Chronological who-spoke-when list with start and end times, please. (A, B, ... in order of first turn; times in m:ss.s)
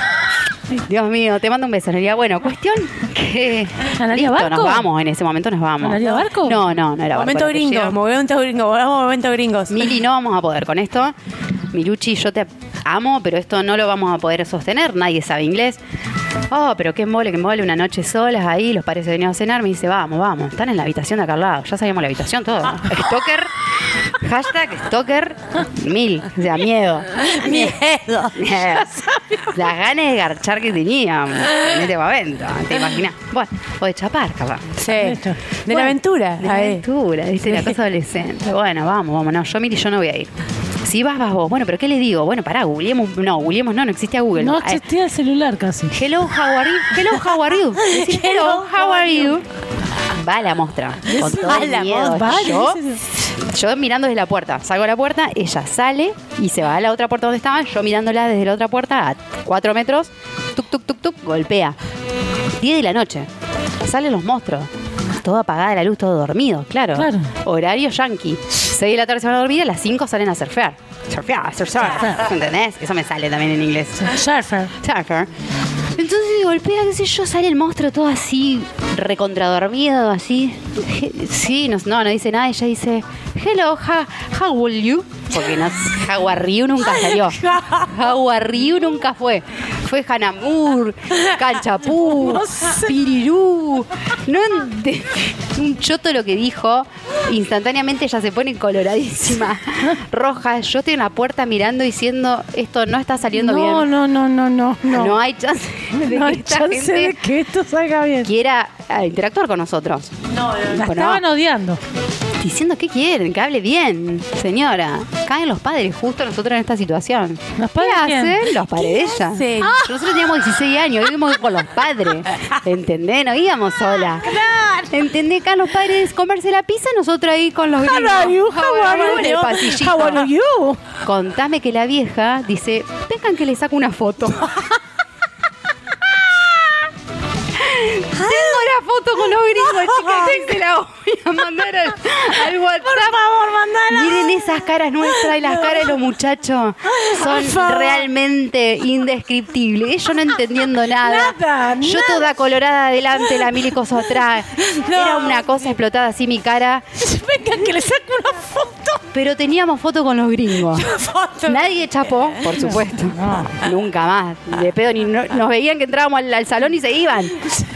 0:00.8-0:08.0 A
0:04.0-0:04.9 B
0:05.8-0:06.6 B
0:07.1-0:10.0 C
0:09.7-0:11.1 A
0:11.7-0:15.8 A
0:16.5-0:23.5 A
0:24.1-0:27.7 A
0:27.2-0:28.3 C
0:28.3-0:34.9 A
0:28.9-0:29.5 B
0:34.8-0:36.8 C
0:34.9-0:35.4 B
0:35.7-0:40.3 A
0:37.5-0:37.8 C
0:40.8-0:44.8 A
0:44.4-0:46.0 B
0:45.9-0:49.4 A
0:47.8-0:49.3 C
0:50.1-0:52.8 A
0:51.0-0:53.0 B
0:51.2-0:52.4 C
0:53.4-1:01.8 A
1:02.6-1:03.3 A
1:03.8-1:14.1 A
1:06.9-1:07.3 B
1:14.0-1:14.7 B
1:14.8-1:15.3 A
1:16.0-1:43.9 A
1:26.8-1:27.9 C
1:32.0-1:33.0 B
1:43.3-1:45.2 B
1:44.9-1:47.2 A
1:45.9-1:48.3 B
1:48.2-1:50.1 A
1:50.3-1:50.9 C
1:50.7-1:51.8 B
1:50.8-1:51.2 A
1:52.4-2:04.3 A
1:57.6-1:58.5 B
1:59.1-1:59.8 C
1:59.6-1:59.9 B
2:04.2-2:04.9 B
2:04.9-2:10.3 A
2:07.8-2:10.8 B
2:08.7-2:09.5 C
2:11.0-2:14.6 A
2:17.5-2:23.2 A
2:18.2-2:18.7 B
2:19.4-2:20.6 B
2:22.4-2:25.9 B
2:23.9-2:36.8 A
2:26.9-2:28.1 B
2:30.9-2:32.3 B
2:33.2-2:33.6 B
2:34.6-2:35.6 C
2:37.0-2:39.0 B
2:39.1-2:40.9 A
2:40.7-2:42.8 C
2:41.4-2:47.4 A
2:42.6-2:43.6 B